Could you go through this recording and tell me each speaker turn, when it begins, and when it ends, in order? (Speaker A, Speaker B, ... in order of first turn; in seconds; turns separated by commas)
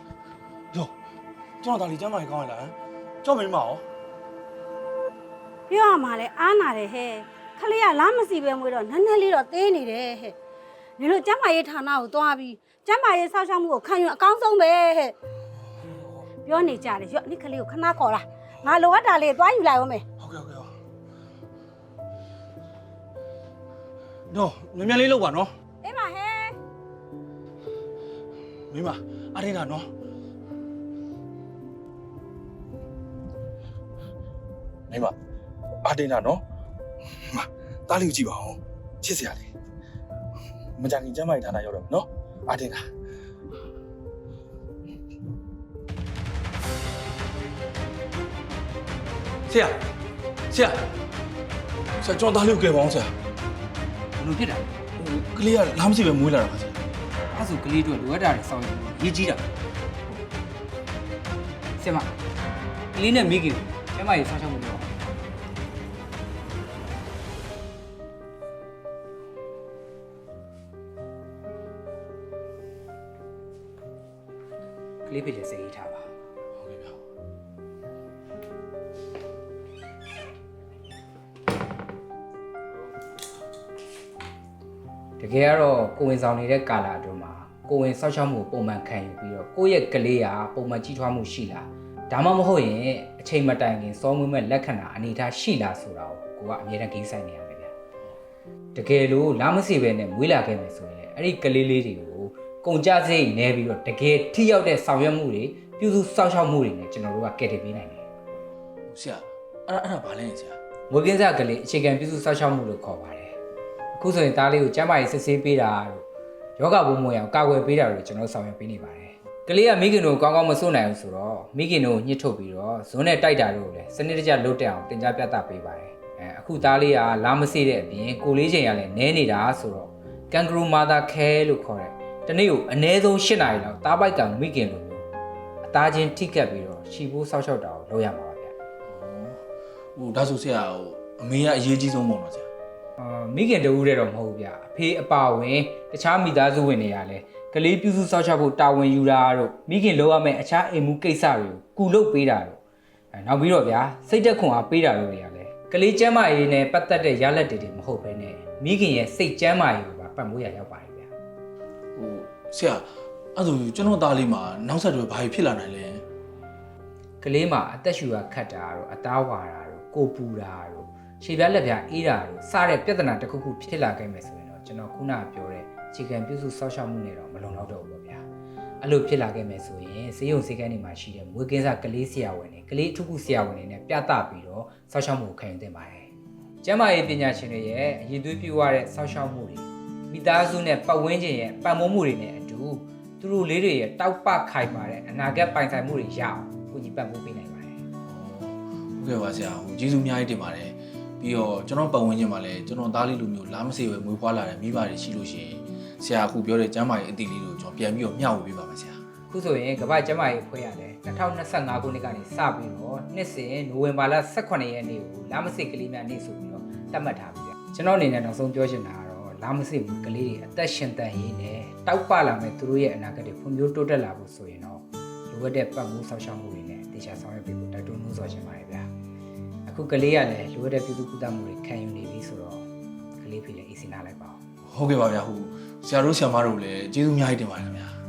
Speaker A: 1.6-3.8, Speaker B: 5.7-10.3, Speaker B: 11.0-15.1, Speaker B: 16.4-20.0, Speaker A: 20.2-20.7, Speaker A: 24.3-25.5, Speaker B: 25.8-26.5, Speaker A: 28.7-29.9, Speaker A: 34.9-35.1, Speaker A: 35.8-36.4, Speaker A: 37.2-39.5, Speaker A: 40.8-42.8, Speaker A: 49.5-49.8, Speaker A: 50.5-50.8, Speaker A: 52.0-53.1, Speaker C: 54.2-54.8, Speaker A: 55.0-56.8, Speaker C: 57.3-59.4, Speaker C: 61.8-62.1, Speaker C: 62.9-65.0, Speaker C: 75.0-76.1, Speaker A: 76.6-77.0, Speaker C: 85.2-97.7, Speaker C: 98.7-108.0, Speaker A: 108.9-110.6, Speaker C: 110.9-113.3, Speaker C: 113.9-116.0, Speaker C: 116.6-135.1, Speaker C: 135.6-138.5, Speaker A: 138.9-139.4, Speaker A: 139.9-142.5, Speaker C: 143.0-152.6, Speaker C: 153.1-161.1, Speaker A: 161.9-166.0, Speaker C: 167.2-178.2, Speaker C: 178.8-186.1, Speaker C: 186.6-197.8, Speaker A: 198.0-209.0, Speaker C: 209.3-228.9, Speaker C: 229.6-232.6, Speaker C: 233.2-234.4, Speaker A: 234.7-237.9